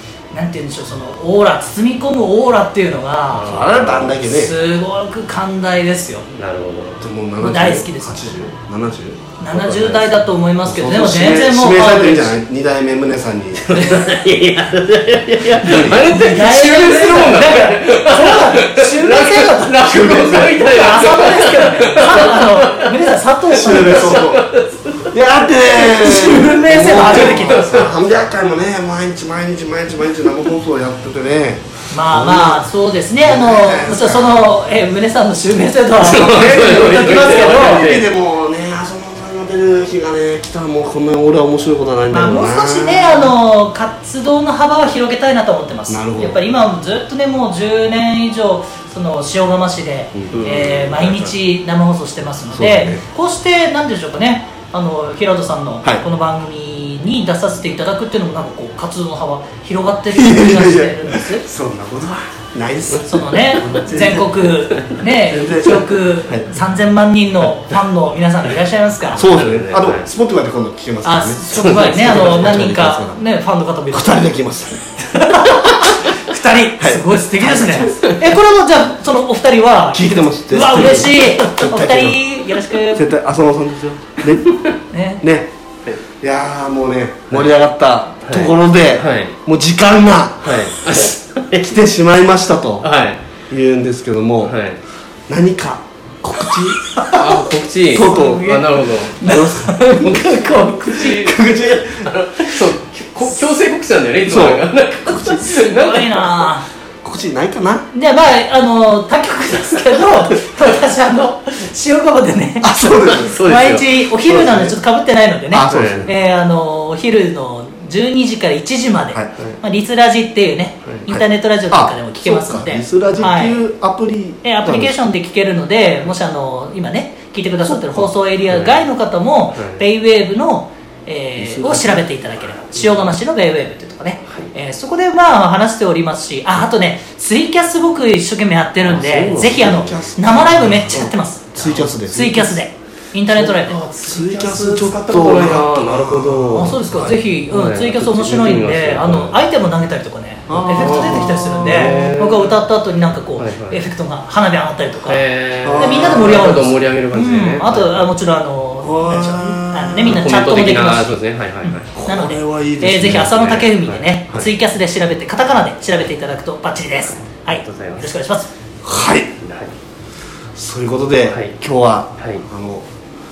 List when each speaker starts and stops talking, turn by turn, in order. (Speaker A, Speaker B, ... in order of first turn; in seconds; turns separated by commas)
Speaker A: 0.3-3.7, Speaker B: 3.3-4.2, Speaker C: 3.4-4.5, Speaker A: 4.2-6.3, Speaker B: 6.3-7.0, Speaker C: 7.0-9.2, Speaker A: 7.4-8.4, Speaker A: 9.4-12.3, Speaker B: 9.5-10.1, Speaker C: 10.6-13.7, Speaker B: 13.6-22.9, Speaker A: 13.7-14.1, Speaker C: 15.6-16.0, Speaker A: 15.8-19.8, Speaker C: 19.8-20.6, Speaker A: 20.5-24.2, Speaker C: 23.5-24.4, Speaker B: 23.6-25.2, Speaker C: 25.1-32.6, Speaker A: 25.7-27.9, Speaker B: 27.0-27.9, Speaker A: 31.9-37.8, Speaker C: 33.2-34.5, Speaker B: 36.0-38.1, Speaker C: 36.2-43.3, Speaker A: 42.1-61.4, Speaker C: 45.9-46.4, Speaker C: 50.1-50.4, Speaker B: 50.3-51.3, Speaker C: 52.5-53.0, Speaker C: 60.1-64.5, Speaker A: 63.0-69.2, Speaker C: 65.3-66.5, Speaker C: 69.1-73.2, Speaker B: 69.2-70.0, Speaker A: 71.0-74.3, Speaker B: 71.5-72.6, Speaker C: 73.9-74.8, Speaker A: 75.1-83.1, Speaker C: 76.8-78.0, Speaker C: 79.9-82.2, Speaker C: 82.9-84.6, Speaker A: 84.9-85.2, Speaker C: 85.2-90.7, Speaker B: 88.2-89.3, Speaker B: 90.4-91.8, Speaker C: 91.5-92.9, Speaker B: 92.8-93.2, Speaker C: 93.5-94.5, Speaker B: 94.4-94.8, Speaker C: 95.3-97.4, Speaker A: 96.9-97.3, Speaker B: 97.1-106.5, Speaker C: 97.9-98.6, Speaker A: 97.9-101.1, Speaker C: 99.2-102.1, Speaker C: 104.2-105.5, Speaker A: 105.5-106.7, Speaker C: 107.0-107.9, Speaker A: 107.9-123.6, Speaker C: 112.6-113.4, Speaker B: 112.9-113.9, Speaker C: 114.2-114.8, Speaker C: 115.5-116.1, Speaker B: 115.7-116.1, Speaker C: 121.1-125.0, Speaker A: 124.4-143.8, Speaker C: 127.6-128.1, Speaker B: 128.5-128.8, Speaker B: 129.5-129.8, Speaker C: 131.4-132.0, Speaker B: 138.8-140.0, Speaker C: 139.3-142.6, Speaker B: 143.3-149.4, Speaker C: 144.0-147.2, Speaker A: 146.5-155.2, Speaker C: 148.0-148.5, Speaker C: 150.5-152.1, Speaker B: 150.6-152.6, Speaker B: 153.4-153.8, Speaker B: 155.1-158.0, Speaker C: 155.6-156.7, Speaker A: 155.7-168.5, Speaker C: 158.8-160.2, Speaker B: 160.0-161.8, Speaker C: 161.9-163.6, Speaker B: 163.0-164.0, Speaker B: 167.6-168.1, Speaker C: 168.8-169.3, Speaker B: 169.4-169.7, Speaker C: 170.6-172.8, Speaker B: 171.3-171.5, Speaker B: 172.2-172.4